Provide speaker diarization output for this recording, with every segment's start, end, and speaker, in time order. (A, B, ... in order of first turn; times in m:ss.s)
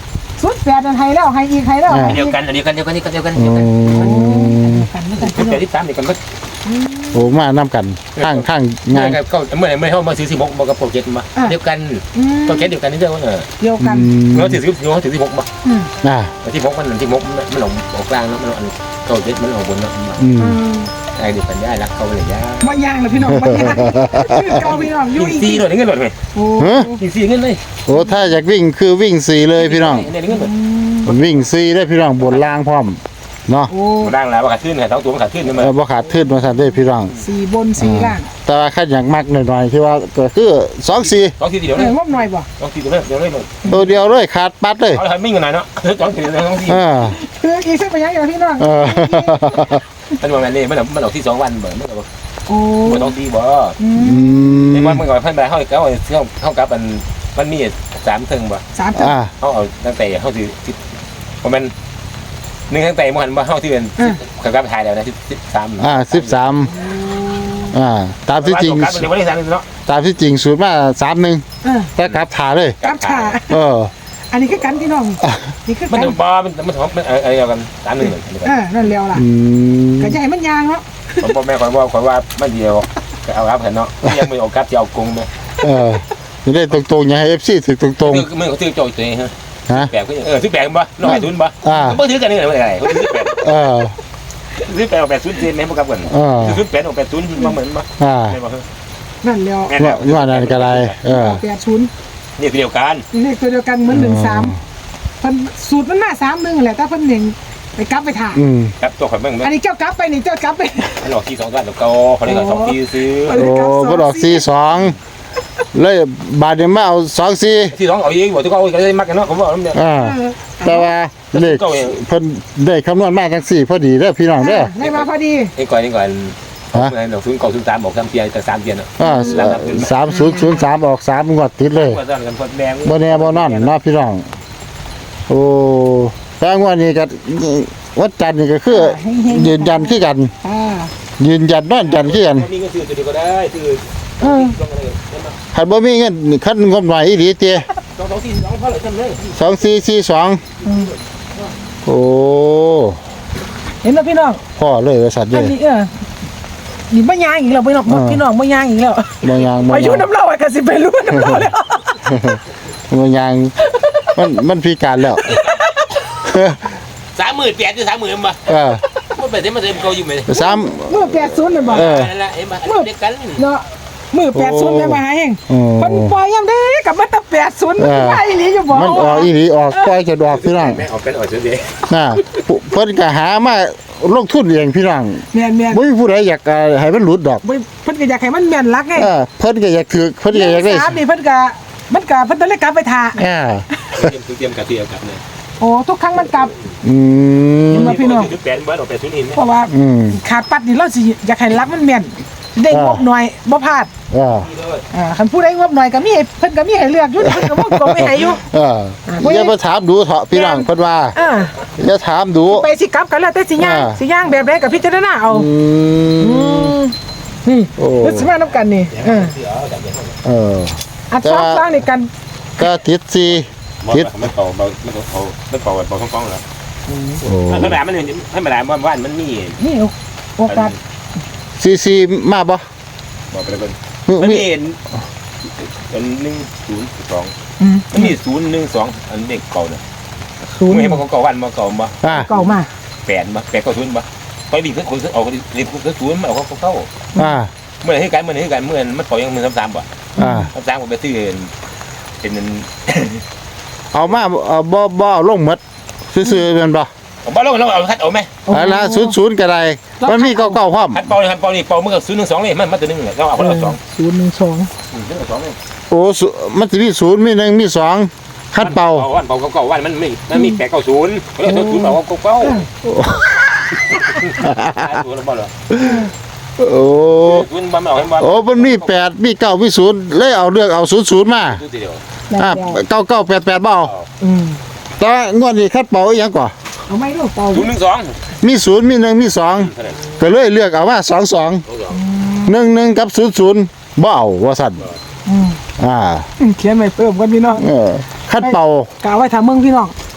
0:00.4-0:02.4 A
0:01.9-0:02.2 B
0:02.0-0:04.1 C
0:03.4-0:04.9 B
0:03.9-0:05.6 A
0:05.2-0:06.2 C
0:06.7-0:07.3 A
0:07.1-0:09.2 B
0:08.1-0:13.5 C
0:12.1-0:12.7 A
0:13.6-0:14.1 A
0:13.8-0:14.6 B
0:14.3-0:15.5 C
0:15.6-0:15.9 A
0:16.0-0:16.3 B
0:16.4-0:20.2 C
0:20.2-0:20.6 B
0:20.4-0:20.9 A
0:21.1-0:22.8 C
0:22.6-0:25.7 A
0:23.2-0:24.6 B
0:24.5-0:26.2 C
0:26.3-0:27.0 A
0:26.6-0:27.0 B
0:27.0-0:27.6 C
0:27.9-0:30.1 B
0:27.9-0:28.2 A
0:29.5-0:30.5 C
0:30.3-0:31.1 A
0:31.0-0:33.7 B
0:31.1-0:31.4 C
0:32.2-0:32.5 C
0:33.7-0:34.1 A
0:34.0-0:35.8 C
0:35.5-0:37.1 B
0:37.2-0:38.3 A
0:37.8-0:41.3 B
0:41.0-0:43.8 C
0:41.7-0:42.5 A
0:43.7-0:45.0 B
0:44.9-0:46.8 C
0:46.7-0:47.2 B
0:47.0-0:49.8 A
0:48.6-0:49.8 B
0:50.2-0:52.0 C
0:52.5-0:53.1 A
0:52.8-0:53.8 C
0:53.8-0:54.7 A
0:54.0-0:55.0 B
0:54.7-0:58.6 C
0:58.7-0:59.2 A
0:59.0-0:59.3 B
0:59.4-1:00.8 C
1:01.4-1:01.7 C
1:02.7-1:06.6 C
1:05.8-1:06.7 B
1:06.8-1:07.8 A
1:07.7-1:09.1 B
1:08.4-1:09.7 C
1:09.9-1:11.4 B
1:11.6-1:11.9 A
1:12.0-1:12.8 B
1:12.8-1:13.4 C
1:12.8-1:13.6 A
1:13.4-1:13.9 B
1:14.3-1:16.2 A
1:15.9-1:18.6 C
1:18.4-1:19.2 A
1:19.1-1:20.2 B
1:20.0-1:21.3 A
1:21.2-1:25.3 C
1:25.6-1:28.3 B
1:28.0-1:33.4 C
1:31.0-1:32.0 B
1:33.3-1:33.9 B
1:34.6-1:38.6 C
1:36.1-1:36.6 B
1:38.0-1:38.4 B
1:39.2-1:39.8 A
1:39.7-1:41.0 C
1:39.8-1:41.4 B
1:41.1-1:41.9 A
1:42.4-1:43.0 C
1:43.1-1:44.6 A
1:43.9-1:44.6 B
1:45.2-1:48.4 A
1:48.3-1:48.7 B
1:48.8-1:49.5 C
1:49.4-1:51.1 A
1:51.0-1:53.5 C
1:52.2-1:54.5 A
1:53.4-1:55.0 B
1:55.7-1:57.7 B
1:57.7-1:59.9 C
1:59.7-2:04.8 B
2:00.0-2:00.9 A
2:01.3-2:02.0 C
2:04.4-2:05.5 A
2:04.8-2:10.0 C
2:09.0-2:12.0 B
2:09.0-2:09.4 A
2:10.1-2:10.6 A
2:11.7-2:13.7 C
2:12.8-2:14.2 B
2:15.3-2:20.3 B
2:18.7-2:20.9 A
2:21.2-2:22.5 B
2:21.8-2:25.4 C
2:24.2-2:24.5 A
2:25.5-2:27.7 B
2:28.0-2:29.4 C
2:29.3-2:30.4 B
2:30.6-2:30.9 A
2:31.8-2:33.0 B
2:33.8-2:34.4 A
2:34.6-2:35.5 B
2:35.3-2:35.9 A
2:36.9-2:42.1 A
2:37.9-2:38.2 B
2:39.2-2:40.1 B
2:42.0-2:43.5 B
2:43.6-2:44.1 A
2:44.2-2:45.4 B
2:45.2-2:46.0 A
2:45.3-2:45.6 C
2:46.2-2:46.7 B
2:47.2-2:48.5 C
2:48.5-2:48.8 B
2:49.1-2:50.4 C
2:50.3-2:51.1 B
2:50.3-2:52.0 A
2:51.5-2:53.4 C
2:51.7-2:52.1 B
2:52.6-2:59.9 A
2:54.3-2:56.1 B
2:57.8-3:00.8 B
3:00.2-3:02.4 C
3:01.9-3:07.4 B
3:05.3-3:05.8 A
3:07.4-3:09.1 A
3:08.9-3:11.0 B
3:10.3-3:13.2 A
3:13.2-3:14.1 B
3:13.9-3:15.2 C
3:15.6-3:16.5 A
3:16.8-3:18.0 B
3:17.7-3:18.3 A
3:17.7-3:19.4 C
3:19.3-3:23.9 A
3:19.7-3:20.2 B
3:22.7-3:23.0 B
3:24.1-3:24.5 B
3:24.3-3:24.8 C
3:24.9-3:28.4 A
3:27.2-3:31.2 B
3:29.1-3:29.5 A
3:30.3-3:31.6 A
3:31.8-3:32.7 B
3:32.5-3:35.5 A
3:33.6-3:34.0 B
3:35.3-3:36.8 B
3:36.2-3:39.3 A
3:37.8-3:38.3 B
3:38.9-3:40.2 C
3:40.2-3:41.7 B
3:41.1-3:42.1 A
3:42.6-3:44.1 B
3:43.8-3:46.4 C
3:46.9-3:47.2 A
3:47.2-3:47.8 B
3:47.5-3:49.6 C
3:49.6-3:50.8 A
3:50.5-3:50.8 C
3:51.6-3:52.6 B
3:53.3-3:54.8 C
3:54.1-3:54.4 B
3:55.6-3:57.3 C
3:57.6-3:58.1 A
3:57.9-3:59.8 C
4:00.6-4:01.0 A
4:00.7-4:02.1 C
4:02.0-4:02.3 B
4:02.1-4:02.7 A
4:03.0-4:06.9 C
4:07.2-4:07.5 B
4:07.8-4:09.8 C
4:10.2-4:10.5 A
4:10.2-4:10.5 B
4:10.5-4:11.5 C
4:12.2-4:13.2 C
4:13.9-4:15.6 B
4:16.1-4:16.9 B
4:17.2-4:18.4 C
4:18.4-4:19.1 A
4:18.5-4:21.1 B
4:20.0-4:20.6 A
4:20.9-4:23.8 C
4:23.4-4:24.7 A
4:24.9-4:25.6 C
4:25.9-4:29.1 B
4:28.6-4:32.7 C
4:30.3-4:30.6 A
4:31.4-4:32.6 A
4:32.8-4:35.0 B
4:33.9-4:35.5 C
4:35.7-4:37.4 B
4:35.8-4:36.1 A
4:37.2-4:39.0 C
4:38.2-4:41.6 B
4:41.4-4:42.0 C
4:42.3-4:42.8 A
4:42.4-4:43.9 B
4:43.8-4:44.1 C
4:44.2-4:44.6 A
4:45.0-4:46.5 B
4:46.9-4:47.7 A
4:47.5-4:48.2 C
4:48.4-4:51.6 B
4:49.6-4:50.0 C
4:51.6-4:52.0 C
4:51.9-4:52.6 A
4:52.4-4:54.8 B
4:55.2-4:55.6 A
4:55.8-4:56.3 B
4:56.4-4:57.7 A
4:57.6-4:58.9 B
4:58.4-4:59.9 A